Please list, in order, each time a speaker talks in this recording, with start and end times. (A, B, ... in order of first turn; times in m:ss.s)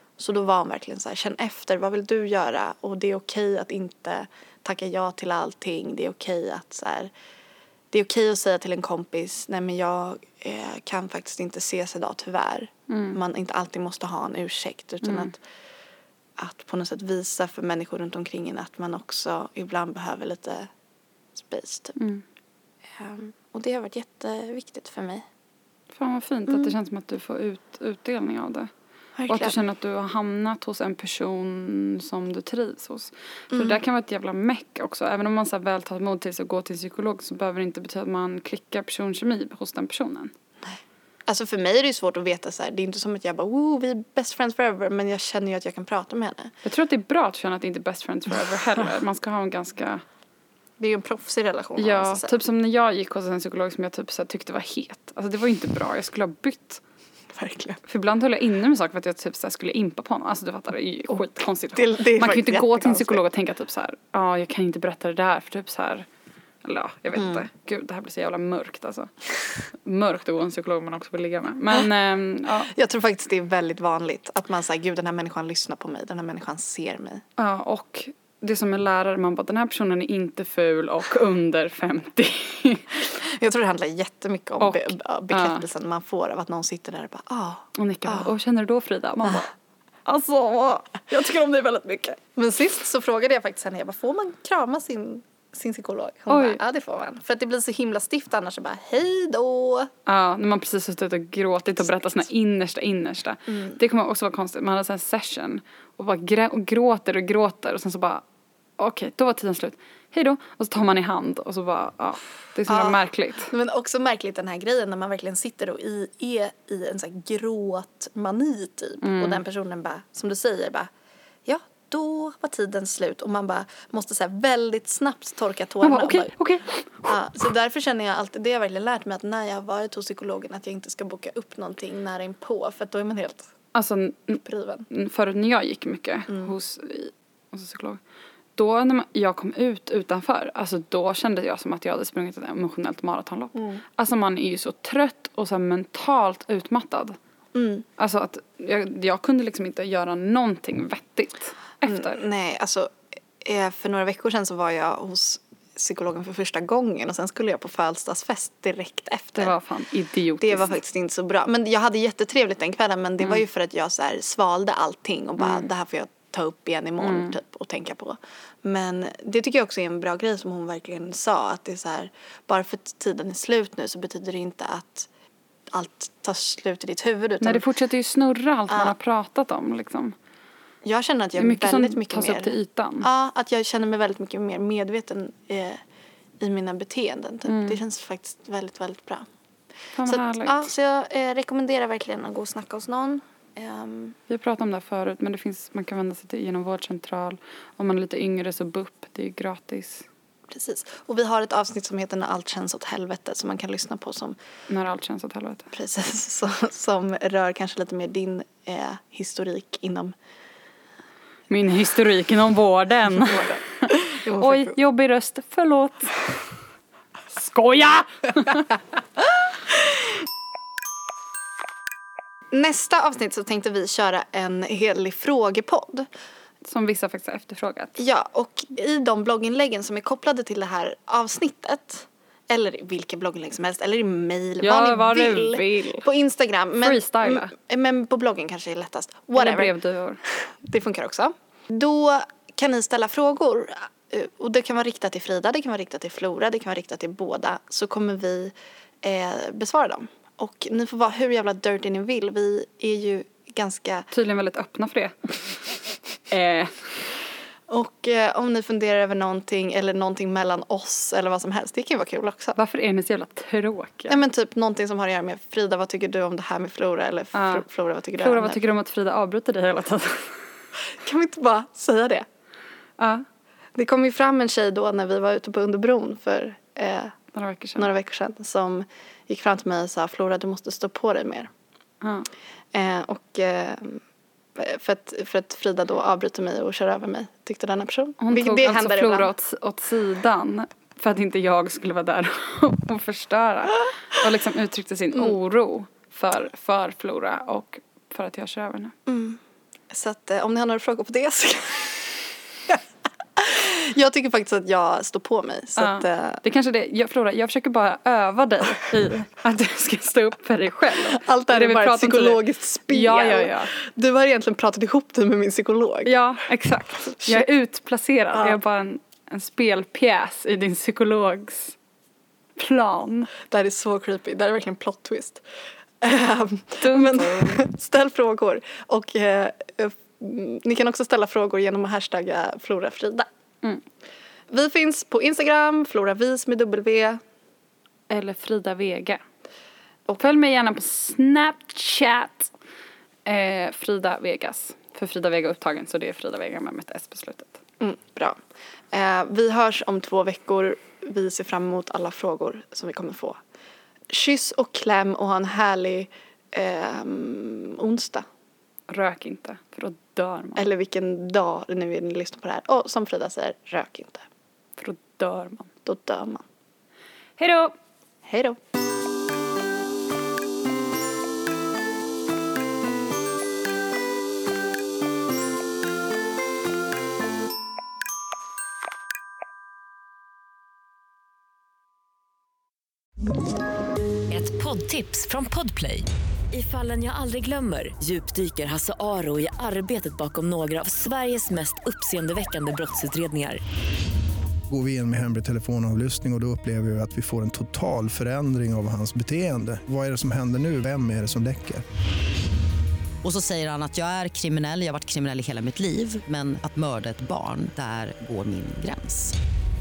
0:00.2-0:07.1 A
0:07.9-0:15.4 A
0:12.9-0:13.2 B
0:15.0-0:15.3 B
0:16.4-0:20.7 A
0:21.3-0:22.0 A
0:22.0-0:22.2 B
0:23.0-0:25.2 A
0:25.9-0:28.7 B
0:29.2-0:29.6 A
0:29.3-0:40.3 B
0:33.5-0:33.8 A
0:40.6-0:46.5 A
0:46.6-0:50.0 B
0:50.8-0:52.4 A
0:51.8-0:56.8 B
0:57.3-0:57.8 A
0:57.8-1:06.1 B
1:01.7-1:03.2 A
1:06.6-1:12.7 B
1:07.1-1:07.4 A
1:12.7-1:17.2 A
1:17.4-1:22.9 B
1:23.0-1:28.3 A
1:24.6-1:25.6 B
1:27.8-1:29.5 B
1:30.0-1:39.9 A
1:36.3-1:36.6 B
1:40.0-1:48.2 B
1:43.5-1:43.8 A
1:48.8-1:53.5 B
1:52.7-2:00.9 A
1:59.0-1:59.4 B
2:01.4-2:06.3 A
2:05.8-2:07.1 B
2:07.0-2:13.5 A
2:13.7-2:18.0 B
2:14.4-2:14.8 A
2:16.3-2:16.5 A
2:18.6-2:27.2 B
2:23.5-2:23.8 A
2:27.5-2:27.8 A
2:28.0-2:32.2 B
2:31.8-2:39.6 A
2:39.4-2:40.7 B
2:40.4-2:55.1 A
2:45.4-2:45.7 B
2:47.0-2:47.4 B
2:55.7-2:57.6 A
2:57.4-3:00.1 B
2:58.7-2:58.9 A
3:00.8-3:05.8 A
3:01.4-3:03.1 B
3:06.4-3:09.2 A
3:07.4-3:07.8 B
3:09.9-3:10.7 B
3:10.0-3:14.2 A
3:14.3-3:20.1 B
3:20.5-3:24.4 A
3:24.7-3:25.7 B
3:25.7-3:30.1 A
3:31.5-3:36.3 B
3:33.1-3:34.8 A
3:37.3-3:38.7 B
3:42.5-3:46.1 A
3:46.6-3:48.0 B
3:48.0-3:59.7 A
3:54.6-3:56.1 B
3:56.8-3:57.5 B
3:59.3-4:00.2 B
4:00.3-4:14.1 A
4:14.1-4:15.7 B
4:16.3-4:17.0 B
4:17.7-4:22.6 A
4:22.6-4:24.2 B
4:24.1-4:28.6 A
4:27.3-4:27.6 B
4:28.2-4:30.5 B
4:31.0-4:32.2 A
4:33.0-4:33.2 B
4:33.8-4:37.1 A
4:37.3-4:37.9 B
4:37.8-4:41.5 A
4:42.0-4:42.3 B
4:42.7-4:44.0 A
4:44.6-4:49.3 A
4:48.2-4:58.9 B
4:59.1-5:02.1 A
5:03.4-5:06.4 A
5:05.8-5:13.7 B
5:11.0-5:16.2 A
5:16.0-5:21.8 B
5:17.2-5:17.4 A
5:18.3-5:18.6 A
5:22.6-5:23.3 B
5:23.4-5:25.4 A
5:26.0-5:33.3 A
5:26.8-5:27.6 B
5:34.5-5:37.2 A
5:38.1-5:39.2 B
5:40.2-5:42.5 B
5:43.2-5:47.6 B
5:47.8-5:48.4 A
5:48.9-5:53.4 A
5:54.1-5:58.2 A
5:58.9-6:00.6 B
6:00.6-6:04.2 A
6:04.8-6:05.7 B
6:05.8-6:06.4 A
6:07.4-6:07.7 B
6:08.2-6:08.6 A
6:24.3-6:33.6 C
6:34.7-6:41.8 D
6:43.2-6:49.3 E